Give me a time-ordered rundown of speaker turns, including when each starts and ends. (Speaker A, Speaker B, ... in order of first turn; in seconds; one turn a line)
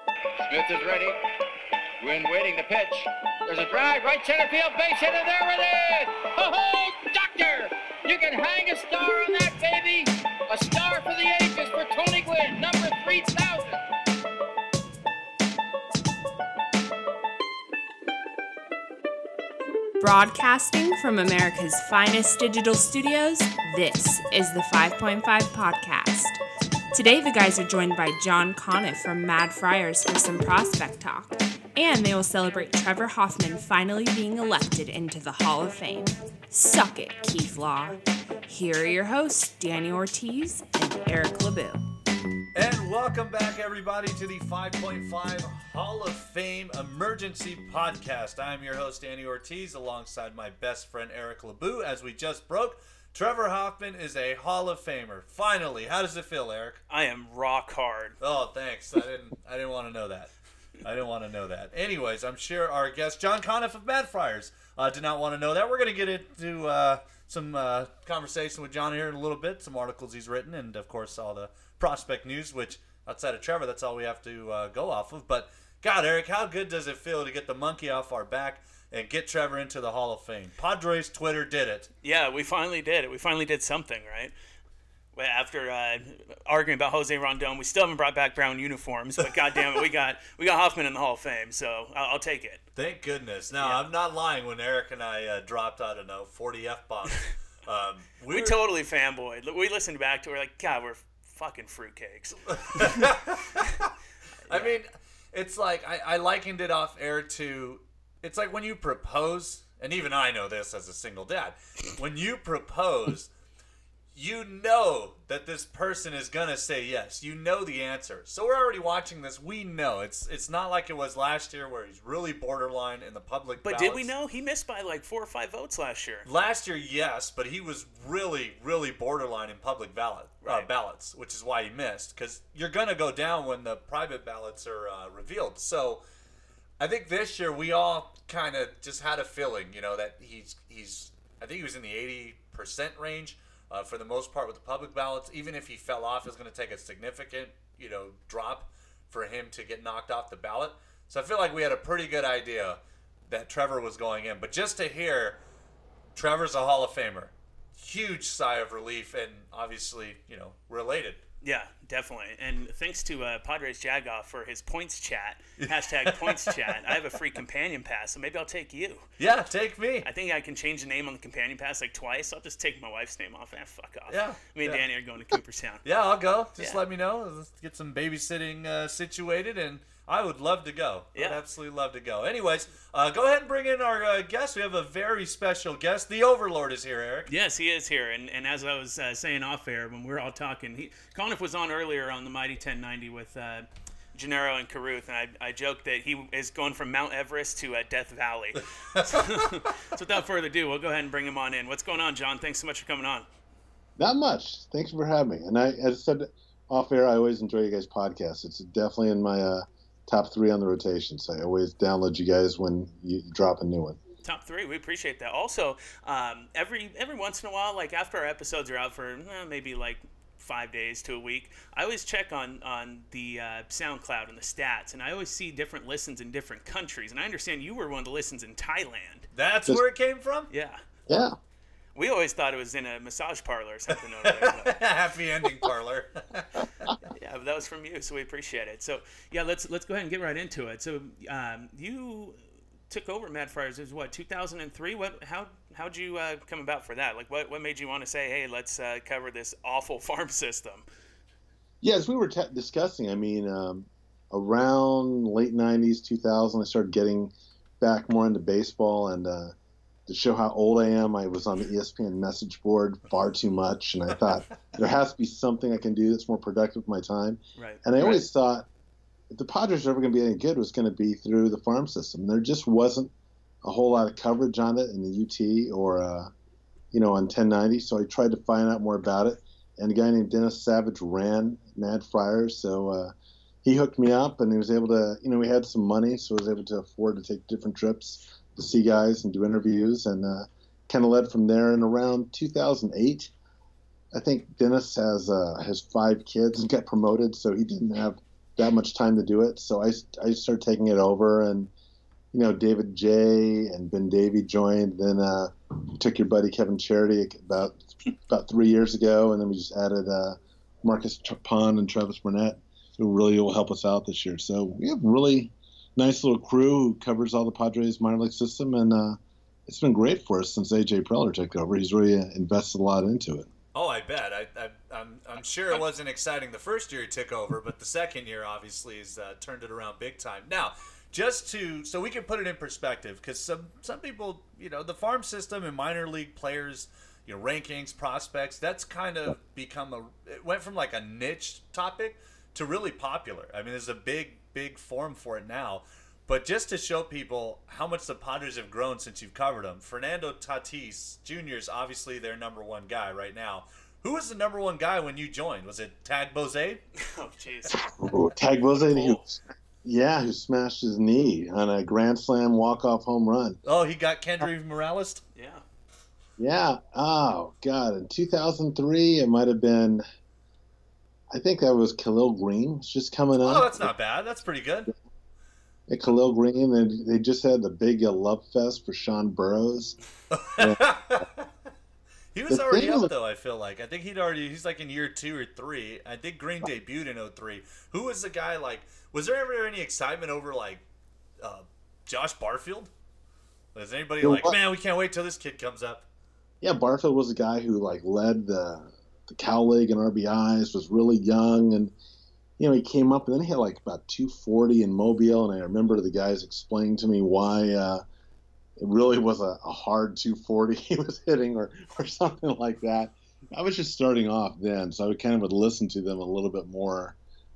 Speaker A: 0.5-1.2
Speaker A: 2.0-13.8
Speaker B: 20.0-26.4
Speaker B: 26.9-41.9
Speaker C: 42.5-56.8
Speaker D: 56.9-58.2
Speaker C: 58.2-81.9
Speaker D: 82.0-84.3
Speaker D: 85.2-92.6
Speaker C: 92.8-98.6
Speaker D: 98.3-103.1
Speaker C: 102.5-103.7
Speaker C: 104.5-113.3
Speaker D: 104.5-104.8
Speaker C: 114.1-124.1
Speaker D: 123.6-126.3
Speaker C: 126.3-136.0
Speaker D: 130.4-130.7
Speaker C: 136.8-155.4
Speaker C: 156.1-161.2
Speaker D: 161.4-169.1
Speaker C: 165.6-166.5
Speaker C: 169.2-170.1
Speaker D: 170.0-175.8
Speaker C: 174.1-174.8
Speaker C: 175.8-187.3
Speaker D: 187.3-203.3
Speaker C: 198.9-199.4
Speaker E: 204.0-214.0
Speaker D: 214.2-229.3
Speaker C: 229.3-230.5
Speaker D: 230.5-230.8
Speaker E: 231.1-231.4
Speaker D: 231.9-234.8
Speaker C: 234.4-236.6
Speaker D: 237.2-250.8
Speaker E: 251.8-259.6
Speaker E: 260.1-268.7
Speaker D: 267.6-268.2
Speaker E: 269.3-273.1
Speaker E: 273.6-276.3
Speaker E: 276.9-283.1
Speaker E: 283.6-293.3
Speaker E: 294.1-301.7
Speaker E: 302.3-323.5
Speaker C: 323.7-356.8
Speaker D: 357.0-357.8
Speaker E: 357.7-363.6
Speaker D: 358.7-359.3
Speaker C: 363.6-365.2
Speaker D: 365.4-365.6
Speaker E: 366.4-370.0
Speaker E: 371.3-373.9
Speaker C: 373.4-374.9
Speaker E: 375.9-380.0
Speaker C: 380.3-381.4
Speaker E: 380.6-381.2
Speaker C: 382.3-390.8
Speaker E: 382.5-383.1
Speaker C: 391.4-392.9
Speaker C: 393.8-396.1
Speaker E: 394.2-394.6
Speaker E: 396.6-401.9
Speaker E: 402.6-408.0
Speaker E: 408.8-417.2